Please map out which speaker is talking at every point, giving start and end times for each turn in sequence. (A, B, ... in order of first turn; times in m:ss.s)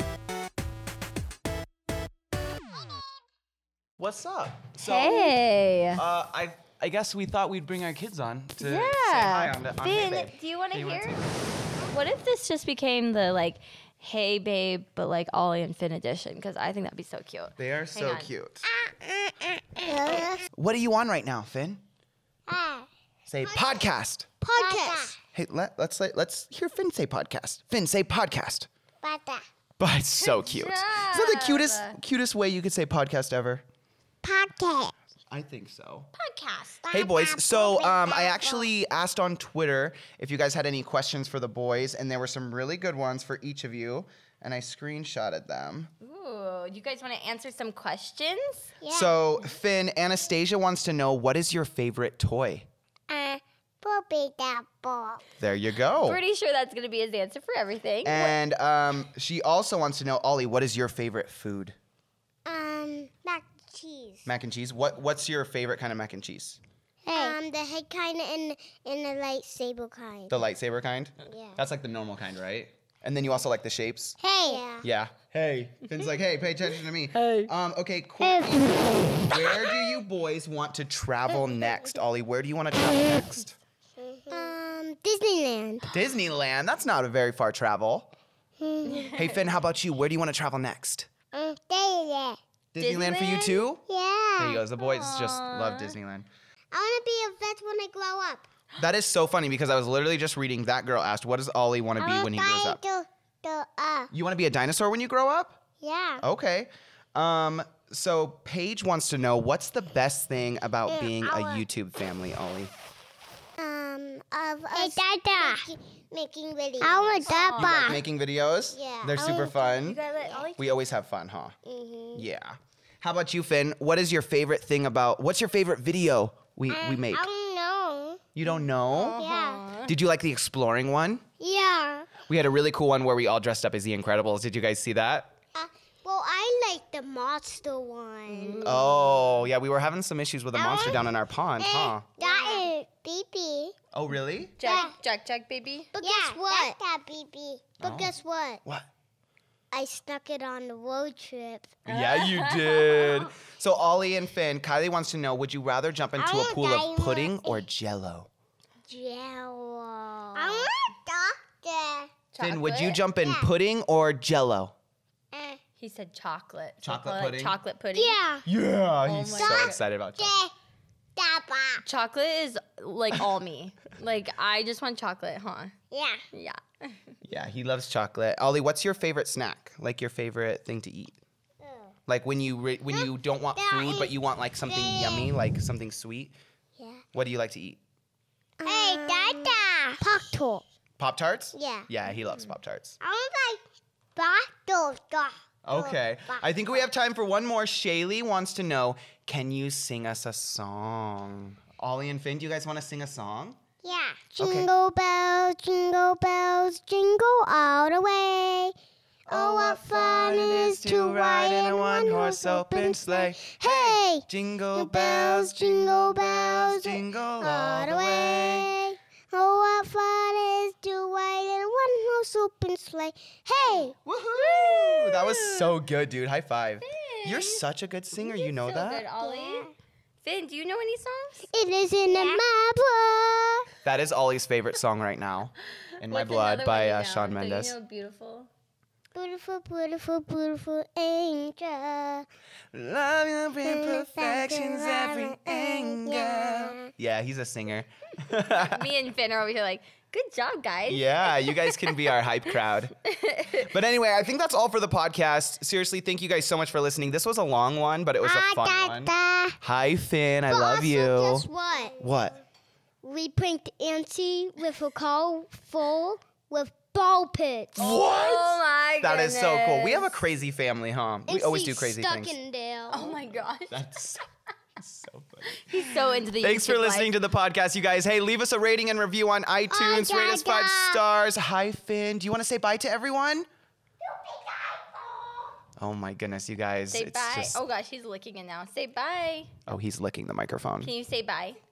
0:04.0-0:05.4 A
0:04.8-0:06.0 B
0:05.9-0:11.3 A
0:08.6-0:11.2 B
0:11.8-0:18.3 B
0:17.6-0:18.7 A
0:18.7-0:20.4 C
0:20.0-0:21.8 A
0:22.5-0:22.9 C
0:23.3-0:28.7 A
0:24.4-0:25.1 C
0:24.6-0:25.0 B
0:29.0-0:29.5 C
0:29.8-0:33.6 A
0:30.2-0:32.0 B
0:34.2-0:34.9 C
0:35.3-0:36.1 A
0:36.2-0:36.8 B
0:36.8-0:38.7 C
0:36.9-0:45.9 A
0:46.0-0:48.7 B
0:48.8-0:49.2 C
0:48.9-0:52.7 A
0:53.1-0:55.2 C
0:55.4-0:56.2 A
0:56.0-0:58.4 B
0:58.0-1:01.8 A
1:02.5-1:04.3 C
1:04.3-1:06.6 A
1:07.0-1:10.4 C
1:10.3-1:14.2 A
1:11.3-1:11.6 C
1:14.2-1:14.9 C
1:14.8-1:23.6 A
1:17.1-1:17.5 B
1:18.2-1:19.7 C
1:24.0-1:25.9 C
1:25.9-1:28.1 A
1:28.6-1:29.2 C
1:28.8-1:29.5 B
1:29.1-1:31.1 A
1:31.3-1:32.4 C
1:32.7-1:33.8 A
1:32.8-1:33.6 B
1:33.9-1:34.6 C
1:34.4-1:36.3 A
1:34.8-1:36.0 B
1:36.7-1:38.5 C
1:38.8-1:42.8 A
1:42.0-1:44.1 C
1:44.1-1:45.6 A
1:45.8-1:46.3 C
1:46.2-1:52.7 A
1:50.9-1:51.6 C
1:53.6-1:58.0 C
1:54.7-1:55.7 B
1:56.8-1:58.0 B
1:57.6-2:00.0 A
1:58.7-2:00.4 C
1:59.8-2:00.7 B
2:00.6-2:01.6 A
2:01.6-2:02.2 C
2:02.2-2:07.3 A
2:06.7-2:08.3 C
2:08.4-2:09.2 A
2:08.9-2:10.0 B
2:09.2-2:09.6 C
2:09.8-2:11.2 A
2:11.4-2:12.1 C
2:12.2-2:15.4 A
2:15.6-2:18.7 C
2:18.3-2:19.4 B
2:18.6-2:22.0 A
2:20.6-2:21.1 C
2:21.6-2:23.8 C
2:22.2-2:22.7 B
2:23.9-2:24.8 A
2:24.6-2:26.7 B
2:24.6-2:24.9 C
2:26.0-2:28.6 C
2:27.8-2:28.1 A
2:29.7-2:31.8 C
2:31.8-2:38.3 A
2:31.9-2:33.3 B
2:36.2-2:37.6 C
2:38.9-2:42.1 C
2:40.3-2:40.9 B
2:42.3-2:43.0 B
2:42.4-2:44.7 A
2:43.2-2:43.5 C
2:45.3-2:45.6 C
2:45.8-2:48.2 B
2:46.8-2:47.6 A
2:47.9-2:48.4 C
2:48.4-2:50.3 A
2:49.0-2:49.8 B
2:49.4-2:50.5 C
2:51.2-2:51.8 C
2:51.8-2:55.7 B
2:55.9-2:56.2 C
2:56.3-2:57.0 B
2:57.2-3:01.2 A
3:01.6-3:01.9 C
3:02.1-3:06.4 A
3:02.9-3:04.1 C
3:04.6-3:05.3 C
3:06.8-3:07.0 C
3:07.1-3:07.8 A
3:08.6-3:10.6 C
3:08.6-3:09.5 B
3:11.0-3:13.0 A
3:11.5-3:11.9 C
3:13.0-3:13.6 C
3:14.2-3:16.8 C
3:15.6-3:23.6 A
3:23.8-3:28.7 C
3:24.4-3:24.7 A
3:29.3-3:38.7 A
3:29.3-3:44.0 C
3:43.6-3:45.7 B
3:44.0-3:49.1 A
3:46.8-3:47.6 B
3:48.2-3:51.5 B
3:49.2-3:49.7 C
3:51.5-3:53.7 C
3:52.1-3:52.4 B
3:53.8-3:57.8 A
3:55.9-3:58.5 B
3:59.2-4:02.3 C
4:02.7-4:08.9 A
4:03.6-4:06.9 C
4:08.5-4:12.0 B
4:10.9-4:12.9 A
4:13.0-4:13.7 B
4:13.6-4:22.4 A
4:18.2-4:19.6 C
4:20.5-4:22.1 C
4:23.0-4:28.0 C
4:27.8-4:30.1 B
4:27.8-4:32.4 A
4:31.3-4:33.3 C
4:32.9-4:33.8 B
4:33.7-4:34.2 A
4:34.8-4:43.5 A
4:35.5-4:37.1 B
4:39.7-4:41.0 C
4:44.4-4:45.3 C
4:45.8-4:47.6 A
4:46.9-4:49.5 B
4:49.7-4:50.9 A
4:50.8-4:51.6 B